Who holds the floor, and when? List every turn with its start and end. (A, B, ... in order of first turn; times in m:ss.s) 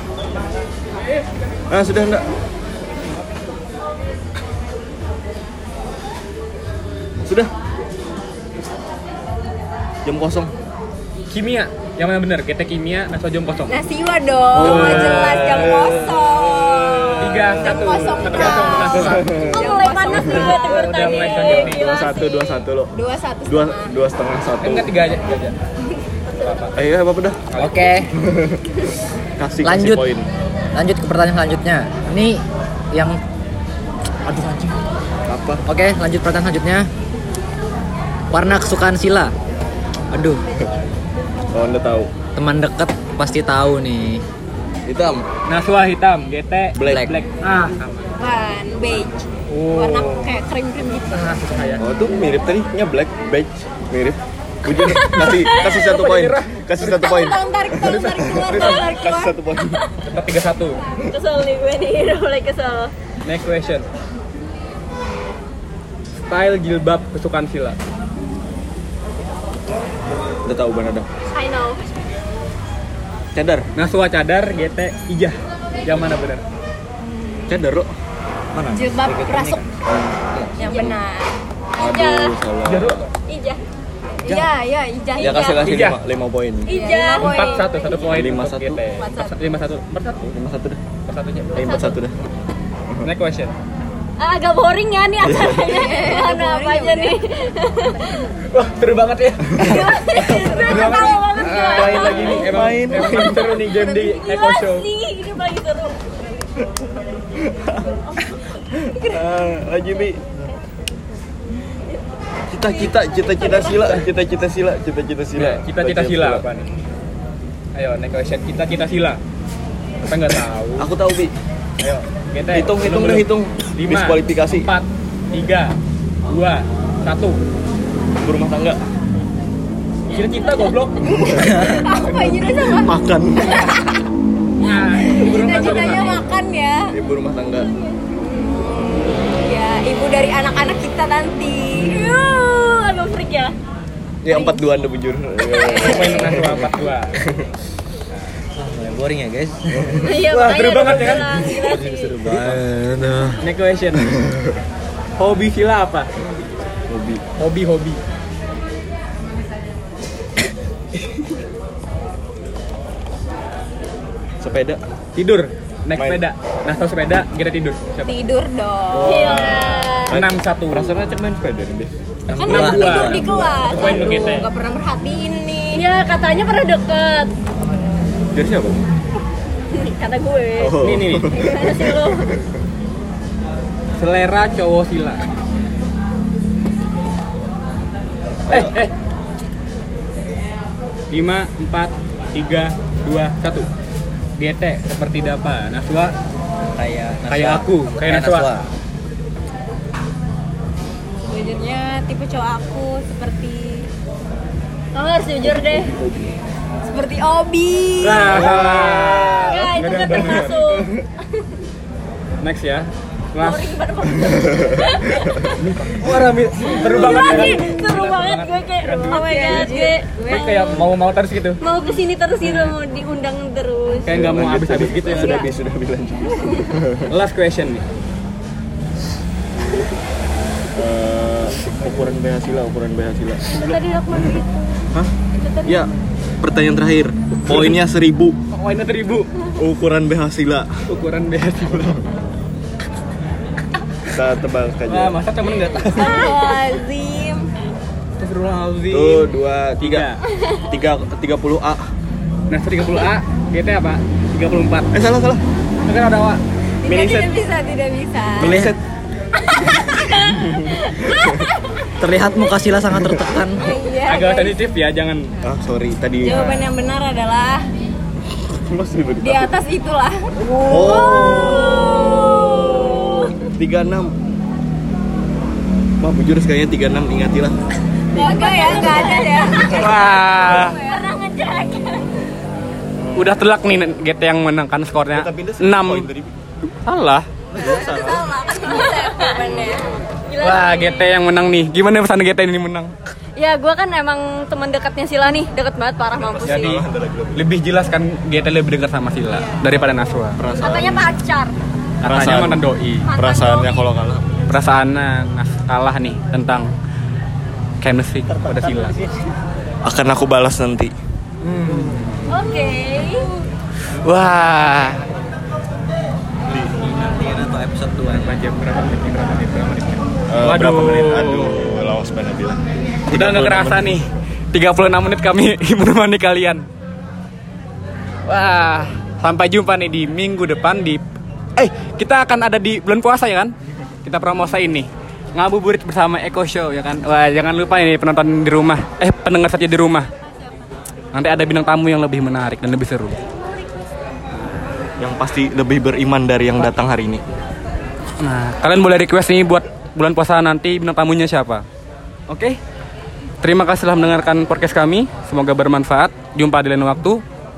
0:01.7-0:02.2 A
0:07.2-0:07.5 A
0:10.0-0:10.5 A
0:11.3-0:13.7 B
0:13.7-0:24.0 C
0:14.5-0:20.5 A
0:14.6-0:16.0 B
0:17.2-0:19.2 B
0:18.4-0:22.1 D
0:20.1-0:21.8 B
0:21.4-0:22.9 A
0:23.4-0:24.9 A
0:24.6-0:25.6 B
0:26.3-0:26.7 B
0:26.7-0:27.4 A
0:27.5-0:27.9 B
0:27.6-0:28.1 E
0:28.2-0:28.6 A
0:29.4-0:30.2 A
0:29.6-0:30.0 E
0:30.7-0:32.4 E
0:34.3-0:34.7 B
0:35.3-0:35.6 A
0:35.7-0:36.9 E
0:38.3-0:39.3 E
0:40.1-0:40.4 E
0:41.5-0:42.1 A
0:42.4-0:44.2 E
0:44.8-0:45.2 A
0:45.5-0:48.1 B
0:46.7-0:47.1 A
0:46.8-0:47.2 E
0:48.2-0:51.2 C
0:49.5-0:50.3 B
0:51.1-0:51.9 B
0:51.8-0:59.8 A
0:54.9-0:58.9 B
0:55.0-0:55.6 C
0:57.0-0:59.4 C
1:00.0-1:00.8 B
1:01.0-1:02.9 D
1:03.2-1:03.9 B
1:06.3-1:07.8 B
1:10.4-1:11.1 A
1:11.3-1:11.8 D
1:13.3-1:13.6 A
1:13.7-1:16.4 B
1:17.0-1:17.6 C
1:17.5-1:17.9 A
1:18.5-1:20.5 E
1:18.7-1:19.6 C
1:19.8-1:21.0 A
1:20.6-1:21.3 C
1:21.8-1:23.0 A
1:21.9-1:22.4 D
1:22.6-1:23.1 B
1:23.3-1:23.6 D
1:24.2-1:25.7 C
1:25.2-1:25.6 D
1:25.2-1:26.7 A
1:25.4-1:26.0 B
1:26.6-1:28.0 D
1:26.7-1:28.1 C
1:27.1-1:30.3 B
1:27.9-1:28.8 A
1:29.0-1:29.4 C
1:30.3-1:30.8 A
1:31.1-1:31.8 B
1:31.5-1:32.1 A
1:33.0-1:33.5 B
1:34.2-1:38.3 D
1:35.2-1:35.8 A
1:35.4-1:37.2 C
1:37.8-1:38.2 C
1:38.5-1:44.9 B
1:39.5-1:41.0 A
1:39.6-1:42.5 D
1:39.6-1:42.2 C
1:41.6-1:43.6 A
1:43.2-1:43.9 C
1:43.7-1:46.1 D
1:47.4-1:50.2 A
1:52.5-1:56.4 A
1:52.7-1:53.8 C
1:53.7-1:54.0 B
1:55.4-1:56.7 B
1:57.7-1:59.2 B
2:00.0-2:00.9 B
2:00.8-2:04.7 A
2:02.3-2:05.7 B
2:06.3-2:07.4 B
2:08.2-2:08.8 A
2:10.1-2:11.1 B
2:11.0-2:14.0 A
2:11.4-2:11.8 E
2:11.4-2:13.6 C
2:14.6-2:16.2 B
2:14.9-2:16.9 C
2:16.9-2:17.7 A
2:18.1-2:22.6 C
2:18.3-2:18.7 D
2:21.9-2:23.5 D
2:24.2-2:27.4 A
2:24.3-2:24.6 C
2:25.6-2:26.0 D
2:25.7-2:27.1 B
2:28.5-2:30.1 E
2:29.7-2:30.1 A
2:30.0-2:32.2 D
2:30.1-2:31.7 B
2:30.4-2:31.5 C
2:31.4-2:32.6 A
2:31.8-2:33.4 E
2:33.4-2:34.1 B
2:34.1-2:34.4 A
2:35.2-2:36.1 B
2:36.9-2:37.2 A
2:37.4-2:38.0 B
2:44.4-2:44.8 A
2:45.2-2:48.2 B
2:45.9-2:46.2 A
2:48.0-2:49.5 C
2:48.9-2:51.0 B
2:49.0-2:50.1 D
2:50.1-2:54.2 A
2:52.3-2:55.8 C
2:52.3-2:53.5 E
2:52.4-2:54.5 B
2:55.7-2:57.3 D
2:58.3-2:58.8 A
2:59.7-3:00.8 D
3:00.6-3:02.3 A
3:00.8-3:01.3 B
3:01.3-3:02.3 D
3:01.4-3:01.8 C
3:04.0-3:05.2 B
3:08.5-3:08.8 A
3:08.5-3:08.9 B
3:11.1-3:13.7 B
3:14.4-3:16.1 B
3:16.7-3:18.7 E
3:17.2-3:18.5 B
3:21.2-3:23.9 C
3:24.9-3:25.9 D
3:25.4-3:26.4 A
3:26.8-3:28.6 C
3:28.0-3:30.6 B
3:28.2-3:30.8 A
3:29.3-3:30.9 D
3:32.4-3:33.8 B
3:33.4-3:35.5 C
3:34.6-3:35.5 D
3:35.6-3:41.6 B
3:36.8-3:40.8 D
3:36.9-3:37.6 A
3:39.0-3:40.8 C
3:41.6-3:44.1 D
3:42.4-3:42.7 B
3:44.0-3:45.5 B
3:44.1-3:47.1 A
3:45.1-3:45.5 D
3:46.4-3:46.8 D
3:47.1-3:47.8 B
3:50.7-3:54.4 A
3:53.5-3:55.9 D
3:56.4-3:58.4 A
3:57.4-3:57.8 B
3:58.5-3:59.3 B
3:59.6-4:00.7 A
4:00.9-4:02.0 B
4:01.7-4:02.0 A
4:04.1-4:05.2 A
4:04.9-4:06.3 B
4:05.9-4:07.5 C
4:06.0-4:06.8 D
4:08.2-4:10.2 B
4:08.9-4:10.1 A
4:10.7-4:11.8 A
4:12.5-4:14.9 B
4:14.9-4:15.4 A
4:15.8-4:16.4 B
4:16.8-4:18.6 C
4:16.8-4:17.3 A
4:18.4-4:18.8 A
4:18.4-4:18.8 E
4:19.5-4:21.5 C
4:19.9-4:21.4 A
4:22.0-4:23.7 E
4:22.9-4:23.7 A
4:23.6-4:24.6 C
4:24.1-4:25.3 B
4:25.4-4:26.7 A
4:26.2-4:27.6 C
4:28.3-4:29.5 A
4:29.2-4:33.3 C
4:30.6-4:34.1 A
4:30.8-4:31.5 D
4:36.0-4:37.6 A
4:38.1-4:42.1 C
4:38.1-4:39.8 D
4:38.2-4:39.0 A
4:39.7-4:40.8 B
4:40.6-4:41.2 D
4:43.0-4:43.4 A
4:43.1-4:46.1 B
4:45.1-4:46.3 A
4:46.6-4:47.3 B
4:47.5-4:48.4 A
4:47.6-4:50.0 C
4:48.5-4:51.1 D
4:50.4-4:52.9 B
4:53.4-4:56.8 D
4:56.1-4:57.5 A
4:56.4-5:00.4 B
5:00.4-5:01.2 A
5:00.6-5:01.5 D
5:02.0-5:03.1 B
5:02.0-5:04.4 A
5:03.1-5:03.7 C
5:03.1-5:03.4 D
5:04.5-5:06.7 B
5:07.8-5:08.9 B
5:08.4-5:09.0 A
5:09.8-5:10.9 A
5:11.4-5:12.3 B
5:12.3-5:13.3 D
5:12.8-5:13.2 C
5:14.0-5:15.0 B
5:16.7-5:18.4 E
5:18.1-5:21.6 B
5:20.3-5:23.9 A
5:23.1-5:26.6 B
5:28.3-5:31.0 B
5:31.6-5:33.5 B
5:34.0-5:40.1 B
5:40.2-5:40.5 C
5:41.1-5:43.2 B
5:45.0-5:47.2 A
5:48.2-5:51.6 B
5:52.3-5:52.6 B
5:53.4-5:57.2 B